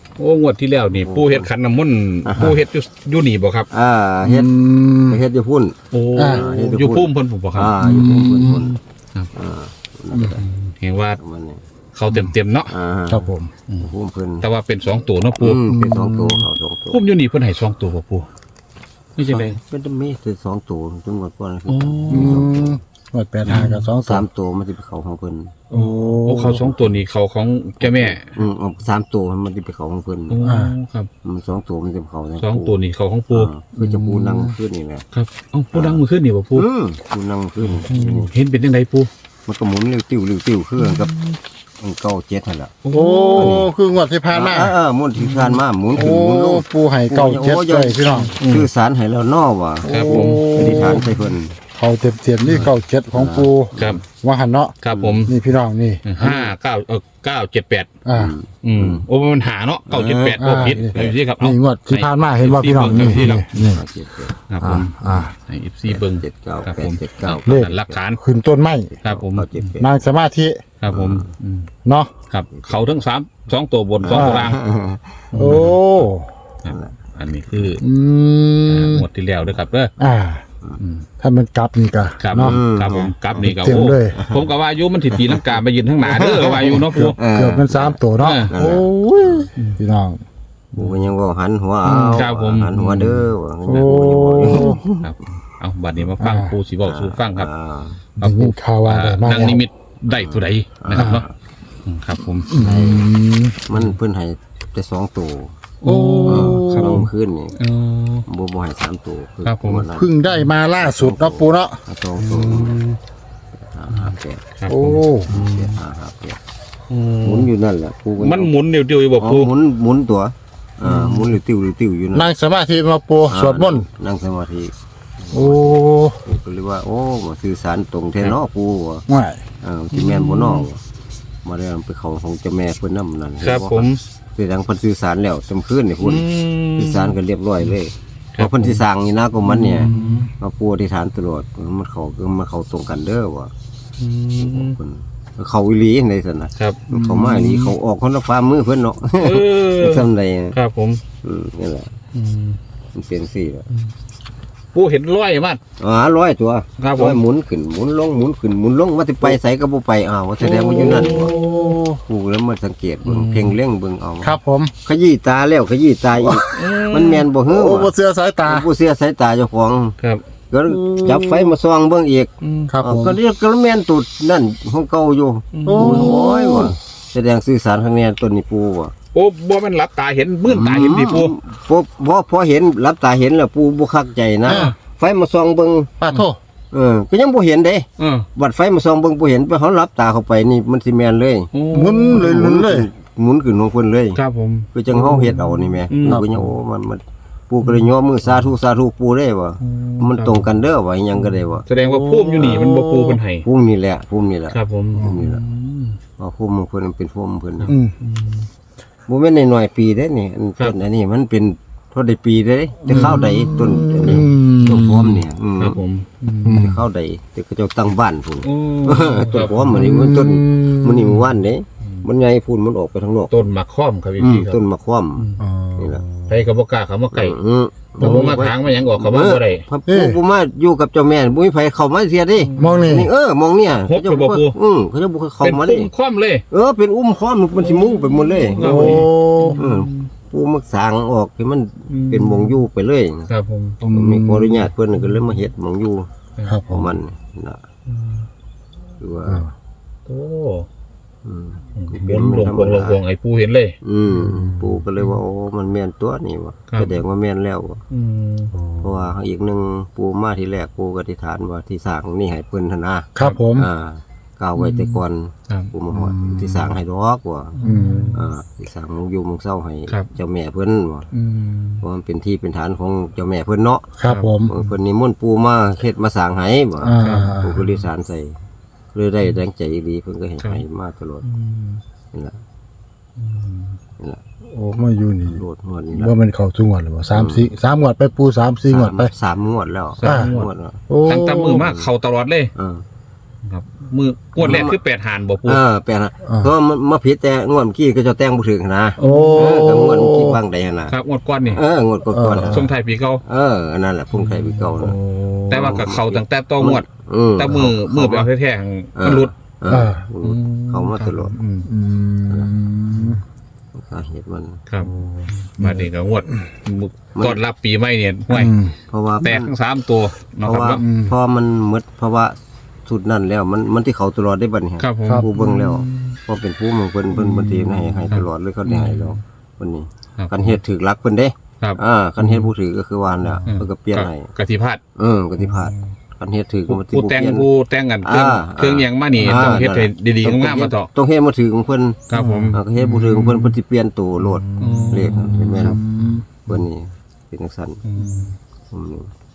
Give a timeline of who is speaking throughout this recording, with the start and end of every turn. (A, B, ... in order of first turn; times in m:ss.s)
0:00.2-0:03.7 A
0:00.9-0:01.5 B
0:02.2-0:02.6 B
0:03.7-0:04.5 B
0:04.2-0:05.2 C
0:05.0-0:08.8 B
0:05.9-0:07.8 A
0:06.2-0:06.4 C
0:07.8-0:08.7 C
0:09.3-0:10.5 B
0:10.4-0:11.2 A
0:11.2-0:11.6 B
0:11.9-0:12.7 A
0:12.7-0:14.4 B
0:13.1-0:13.5 C
0:14.4-0:15.7 A
0:15.4-0:17.0 B
0:15.7-0:16.4 C
0:16.9-0:18.3 A
0:19.2-0:19.6 A
0:19.3-0:22.8 B
0:21.7-0:22.4 A
0:22.1-0:24.2 C
0:23.4-0:23.9 A
0:23.5-0:25.6 B
0:25.7-0:26.7 C
0:25.7-0:28.4 A
0:27.8-0:30.4 B
0:30.3-0:31.1 A
0:30.4-0:30.7 C
0:31.2-0:32.8 B
0:32.4-0:33.5 A
0:33.3-0:35.0 B
0:33.8-0:34.6 C
0:35.1-0:36.6 A
0:35.7-0:36.0 B
0:36.5-0:38.3 B
0:37.6-0:39.1 A
0:39.4-0:41.1 B
0:40.8-0:41.3 A
0:41.8-0:42.7 B
0:42.8-0:43.6 A
0:42.9-0:44.7 C
0:43.4-0:43.7 B
0:44.3-0:51.6 B
0:45.2-0:45.6 A
0:45.9-0:48.3 C
0:48.3-0:48.7 A
0:49.8-0:51.1 C
0:49.9-0:51.1 A
0:51.8-0:54.7 C
0:52.5-0:54.0 B
0:53.8-0:54.0 A
0:54.8-0:55.4 A
0:54.9-0:55.2 B
0:55.2-0:56.0 C
0:56.0-0:57.9 A
0:56.2-0:56.5 B
0:58.0-0:58.3 C
0:58.1-0:59.0 B
0:58.6-1:03.7 A
0:59.9-1:01.2 B
1:00.4-1:03.8 C
1:02.8-1:04.3 B
1:04.5-1:08.2 A
1:04.6-1:05.3 C
1:05.9-1:08.0 B
1:08.2-1:08.9 C
1:08.9-1:09.9 B
1:09.0-1:09.6 A
1:09.8-1:10.6 C
1:10.8-1:11.7 A
1:10.9-1:11.3 B
1:11.8-1:12.1 C
1:12.3-1:14.6 A
1:12.5-1:12.8 B
1:14.0-1:15.7 B
1:14.1-1:14.5 C
1:15.3-1:16.0 A
1:15.3-1:16.3 C
1:16.6-1:17.8 A
1:16.7-1:16.9 B
1:17.8-1:19.0 C
1:18.7-1:19.9 A
1:20.0-1:20.4 C
1:20.8-1:21.1 A
1:21.2-1:22.6 C
1:22.2-1:27.2 A
1:22.4-1:24.5 B
1:23.4-1:24.2 C
1:25.1-1:25.4 B
1:26.0-1:29.5 B
1:26.9-1:30.2 C
1:28.2-1:28.5 A
1:30.7-1:31.1 A
1:30.7-1:35.1 B
1:31.8-1:32.3 C
1:32.1-1:33.3 A
1:33.6-1:34.8 C
1:34.4-1:37.5 A
1:36.2-1:36.6 C
1:36.8-1:38.0 B
1:38.2-1:39.6 C
1:38.2-1:41.2 A
1:40.2-1:41.3 B
1:40.9-1:41.2 C
1:41.8-1:42.5 A
1:42.5-1:43.6 C
1:42.5-1:43.1 B
1:43.6-1:45.6 B
1:45.8-1:48.2 A
1:45.8-1:47.1 C
1:46.3-1:47.5 B
1:48.2-1:50.1 B
1:49.4-1:50.5 A
1:49.9-1:51.8 C
1:50.8-1:52.8 B
1:52.2-1:53.0 A
1:53.5-1:54.4 B
1:53.9-1:55.8 A
1:54.7-1:55.3 C
1:55.2-1:56.4 B
1:56.9-1:57.5 A
1:57.2-1:58.5 B
1:58.2-1:59.5 A
1:59.2-2:02.3 B
2:00.8-2:01.4 A
2:02.1-2:03.9 C
2:03.3-2:09.0 B
2:05.3-2:06.2 C
2:09.1-2:09.4 C
2:09.6-2:10.8 B
2:09.9-2:10.6 A
2:11.4-2:23.5 B
2:13.4-2:14.0 A
2:16.0-2:17.2 A
2:18.3-2:18.8 A
2:19.5-2:20.3 C
2:19.8-2:20.3 A
2:24.0-2:24.8 A
2:24.4-2:30.6 B
2:26.9-2:27.7 C
2:29.2-2:31.0 A
2:31.2-2:31.9 B
2:32.1-2:32.6 A
2:32.9-2:33.6 B
2:34.7-2:35.6 A
2:35.8-2:41.3 B
2:36.8-2:37.2 A
2:40.4-2:41.8 A
2:40.6-2:42.0 C
2:42.0-2:47.9 B
2:43.0-2:43.6 A
2:44.2-2:44.7 C
2:46.2-2:46.8 C
2:46.5-2:47.2 A
2:47.5-2:48.7 C
2:48.4-2:50.0 B
2:50.5-2:58.9 B
2:50.7-2:51.5 C
2:52.4-2:52.7 A
2:52.7-2:53.2 C
2:55.5-2:56.7 A
2:55.6-2:56.8 C
2:59.1-3:01.3 A
3:00.4-3:05.9 B
3:04.5-3:04.7 A
3:04.5-3:04.7 C
3:06.0-3:06.4 C
3:06.7-3:11.5 B
3:08.0-3:08.3 A
3:11.5-3:12.4 A
3:11.7-3:12.9 C
3:12.1-3:14.2 B
3:14.1-3:16.4 A
3:14.7-3:21.6 B
3:17.6-3:18.5 A
3:19.6-3:20.6 A
3:21.2-3:23.4 A
3:21.8-3:22.6 C
3:22.4-3:25.4 B
3:24.5-3:26.0 A
3:26.2-3:27.7 B
3:27.6-3:28.5 A
3:27.7-3:27.9 C
3:29.1-3:35.8 B
3:32.8-3:35.2 C
3:32.9-3:33.3 A
3:34.0-3:34.3 A
3:35.6-3:36.7 A
3:36.4-3:36.8 C
3:36.4-3:43.3 B
3:38.4-3:39.9 A
3:39.6-3:41.2 C
3:43.3-3:44.6 A
3:44.2-3:46.0 B
3:45.2-3:45.4 A
3:45.4-3:46.4 C
3:46.3-3:47.4 A
3:47.1-3:55.9 B
3:48.0-3:49.6 A
3:48.0-3:48.4 C
3:49.9-3:50.2 C
3:52.4-3:53.0 A
3:52.6-3:53.1 C
3:53.7-3:54.6 A
3:55.4-3:56.4 A
3:56.5-3:59.0 B
3:57.6-4:00.1 A
3:58.6-3:59.6 C
3:59.6-4:03.3 B
4:01.9-4:02.6 A
4:03.3-4:03.8 A
4:03.8-4:04.7 C
4:03.9-4:06.1 B
4:05.0-4:05.4 A
4:06.4-4:06.6 A
4:06.4-4:07.0 C
4:06.7-4:07.6 B
4:07.9-4:08.3 A
4:09.0-4:09.4 B
4:09.2-4:09.5 C
4:10.1-4:10.7 A
4:11.2-4:13.0 B
4:11.8-4:13.7 A
4:13.8-4:17.8 B
4:14.2-4:14.8 C
4:16.7-4:17.0 A
4:17.9-4:18.5 A
4:18.6-4:19.1 C
4:18.8-4:27.6 B
4:23.2-4:23.7 C
4:24.6-4:25.0 A
4:25.9-4:26.8 C
4:27.5-4:28.2 A
4:27.6-4:28.2 C
4:28.1-4:31.1 B
4:31.1-4:31.8 A
4:31.8-4:33.9 B
4:34.0-4:34.5 C
4:34.0-4:34.6 A
4:34.5-4:38.3 B
4:36.8-4:37.6 C
4:37.0-4:37.4 A
4:38.9-4:41.2 B
4:41.2-4:41.8 A
4:42.1-4:42.4 B
4:43.2-4:43.8 A
4:44.5-4:45.4 C
4:45.2-4:46.1 B
4:45.9-4:49.1 C
4:47.1-4:47.5 B
4:48.7-4:50.8 B
4:50.0-4:50.5 A
4:50.0-4:50.3 C
4:50.9-4:51.7 C
4:51.0-4:52.5 A
4:52.6-4:52.8 B
4:53.4-4:55.6 A
4:54.4-4:54.8 B
4:55.4-5:00.9 B
4:56.2-4:56.5 C
4:59.0-5:00.4 C
4:59.0-4:59.7 A
5:00.9-5:01.6 A
5:01.5-5:02.7 B
5:02.1-5:02.7 C
5:02.4-5:03.2 A
5:03.2-5:05.0 B
5:04.1-5:04.9 A
5:04.8-5:05.8 C
5:05.5-5:06.8 A
5:05.5-5:08.3 B
5:07.4-5:09.3 A
5:09.0-5:11.3 B
5:09.7-5:10.0 C
5:10.2-5:11.7 A
5:11.6-5:13.2 C
5:13.7-5:14.6 B
5:14.8-5:15.9 C
5:15.5-5:18.5 A
5:17.1-5:17.4 B
5:18.3-5:18.8 C
5:18.9-5:19.5 B
5:19.2-5:20.8 A
5:20.4-5:22.3 B
5:20.8-5:21.1 C
5:22.8-5:34.3 B
5:24.8-5:26.2 A
5:27.2-5:29.2 A
5:27.5-5:28.1 C
5:30.2-5:30.6 A
5:31.6-5:32.5 A
5:33.4-5:34.8 A
5:35.0-5:37.5 B
5:35.4-5:35.8 A
5:36.7-5:40.9 A
5:38.0-5:45.8 B
5:42.1-5:43.4 A
5:42.1-5:42.6 C
5:44.2-5:46.2 C
5:44.6-5:46.6 A
5:46.5-5:47.8 B
5:47.8-5:48.4 A
5:48.7-5:49.1 B